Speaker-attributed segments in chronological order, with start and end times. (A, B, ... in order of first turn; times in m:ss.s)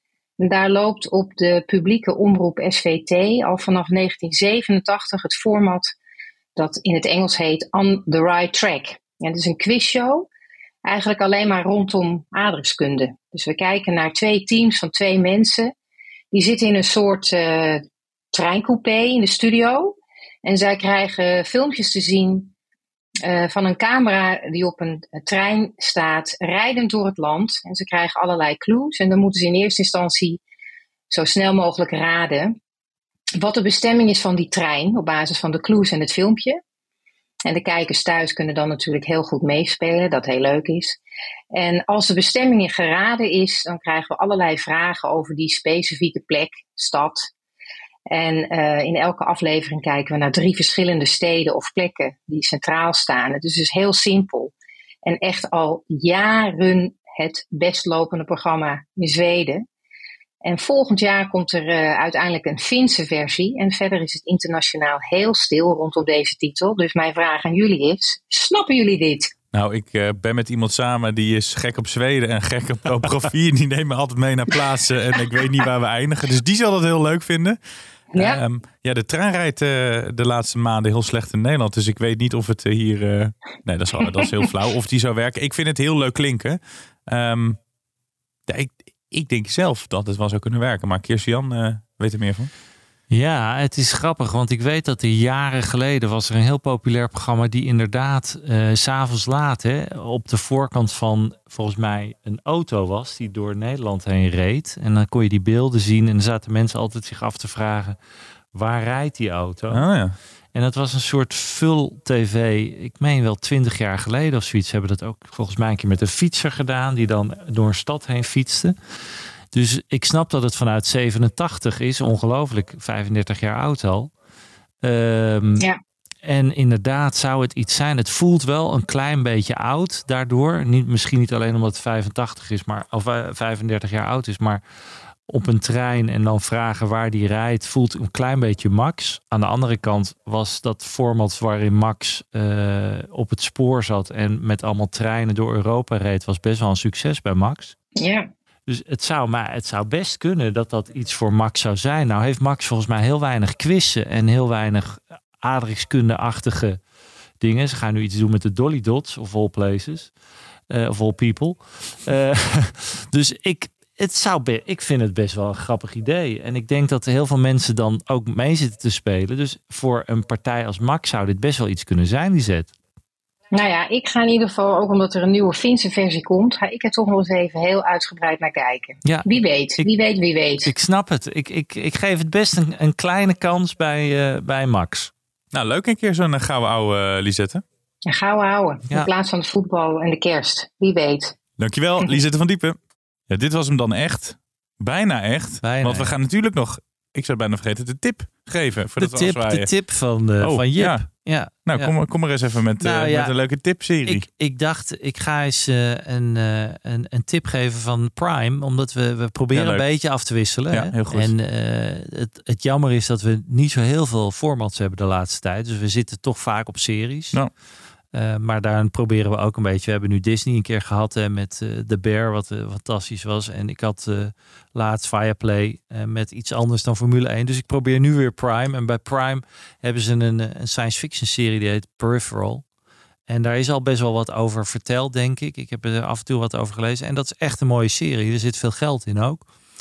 0:00.4-0:05.9 A
0:06.6-0:10.3 A
0:10.8-0:15.7 A
0:16.3-0:22.5 A
0:23.2-0:30.4 A
0:31.1-0:32.5 A
0:33.4-0:36.6 A
0:37.4-0:41.0 A
0:41.5-0:47.3 A
0:48.1-0:54.5 A
0:55.0-0:59.6 A
1:00.4-1:09.3 A
1:09.5-1:17.6 B
1:18.1-1:18.4 A
1:18.1-1:27.6 B
1:24.2-1:24.5 A
1:28.5-1:32.5 B
1:33.1-1:48.0 C
1:48.5-1:49.9 C
1:49.7-1:50.1 B
1:50.5-1:58.8 C
1:59.5-2:04.1 C
2:04.8-2:05.7 C
2:06.2-2:14.6 C
2:15.3-2:27.7 C
2:28.0-2:28.3 A
2:28.7-2:36.8 C
2:37.4-2:40.1 C
2:40.7-2:52.7 C
2:53.5-3:00.7 A
2:59.0-2:59.9 C
3:00.6-3:05.1 C
3:05.5-3:07.6 B
3:08.1-3:11.3 A
3:11.6-3:12.8 B
3:13.3-3:19.7 B
3:15.6-3:16.1 C
3:19.0-3:21.9 C
3:20.4-3:21.1 B
3:21.6-3:24.2 B
3:22.8-3:23.4 C
3:24.0-3:37.4 C
3:29.5-3:29.9 B
3:30.7-3:31.3 B
3:38.1-3:52.6 C
3:53.3-3:59.5 C